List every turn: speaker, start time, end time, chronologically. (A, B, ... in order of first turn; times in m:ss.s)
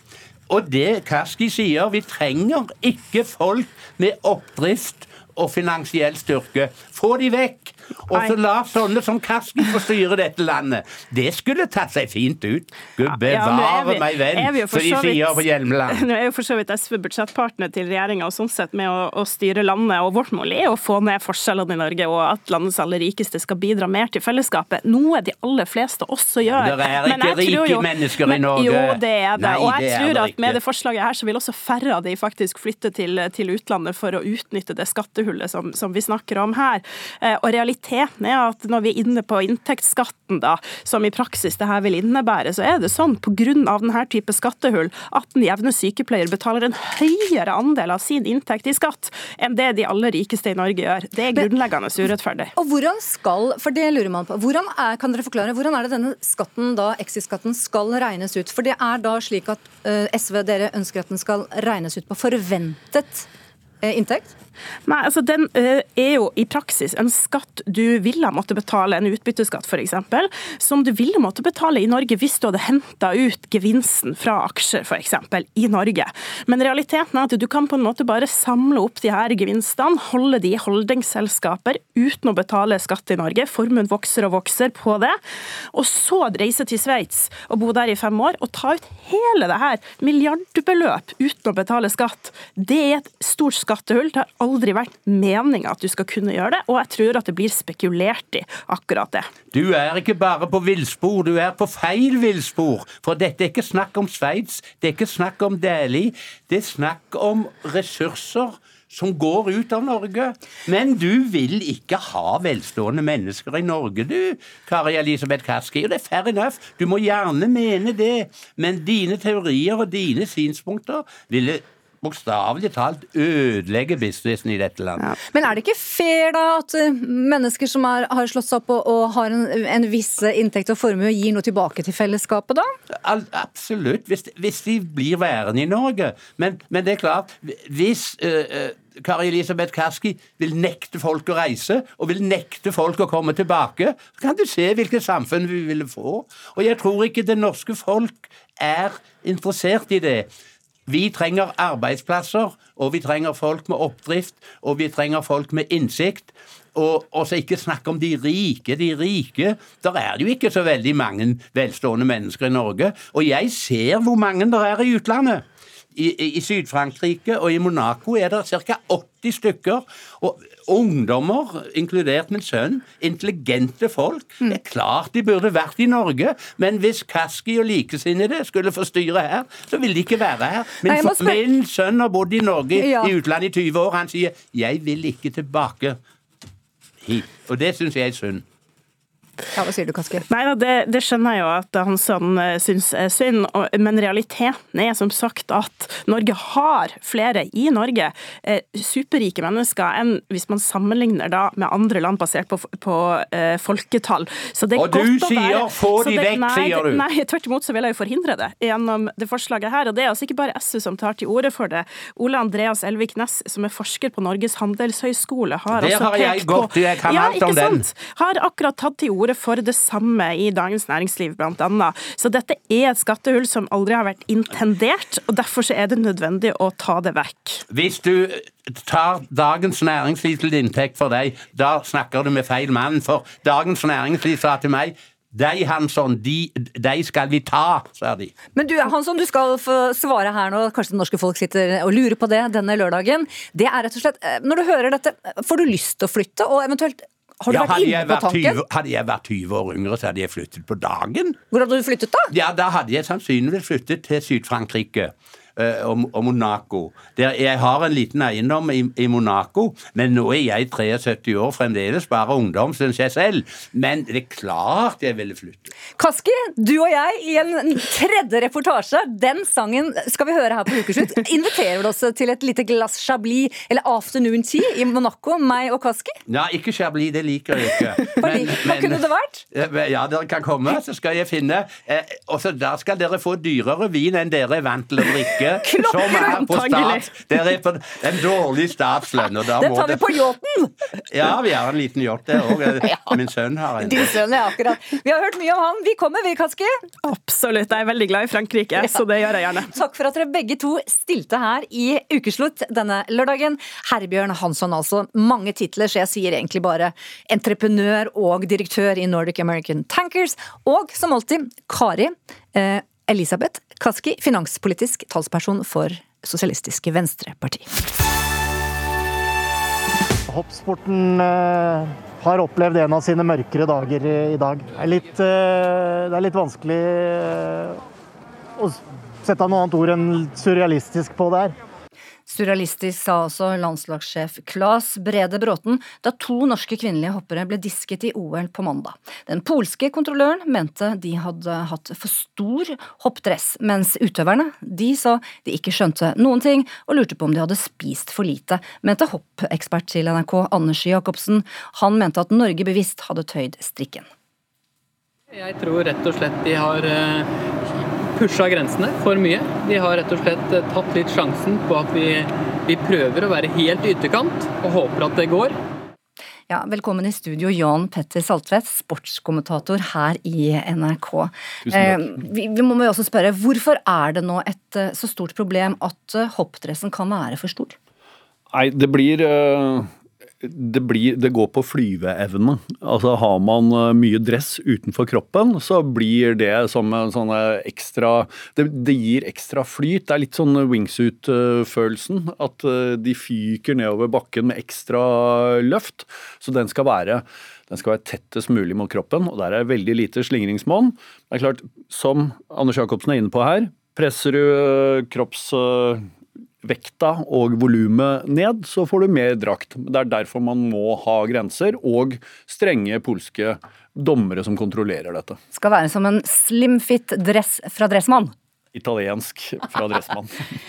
0:00.5-0:16.0 A
0:13.0-0:52.5 B
0:26.5-0:30.6 A
0:52.6-1:03.3 C
1:03.8-1:04.3 C
1:04.8-1:25.2 B
1:25.7-1:39.3 B
1:39.5-2:05.1 A
2:05.3-2:12.7 C
2:13.0-2:30.3 A
2:30.9-2:45.4 A
2:45.9-3:06.0 A
3:00.8-3:01.4 C
3:02.8-3:03.1 C
3:07.0-3:08.4 A
3:09.5-3:10.2 C
3:10.3-3:47.6 B
3:24.7-3:27.0 A
3:35.7-3:37.8 A
3:47.7-3:58.3 A
3:58.5-4:08.6 C
4:07.5-4:11.4 A
4:11.5-4:12.3 C
4:12.3-4:25.7 A
4:26.0-4:36.1 C
4:36.3-4:50.2 A
4:38.2-4:39.4 C
4:45.6-4:46.6 C
4:46.0-4:47.1 B
4:49.6-4:50.7 C
4:51.1-4:54.2 A
4:53.8-4:56.8 C
4:57.0-4:59.7 B
4:59.7-5:17.7 C
5:20.3-5:27.8 D
5:28.6-5:31.6 D
5:32.3-5:54.1 C
5:55.3-5:57.3 E
5:58.2-6:05.6 E
6:06.5-6:17.8 C
6:18.5-6:19.9 F
6:20.4-6:46.1 F
6:46.6-6:55.4 F
6:55.5-6:58.3 C
6:58.7-7:00.4 F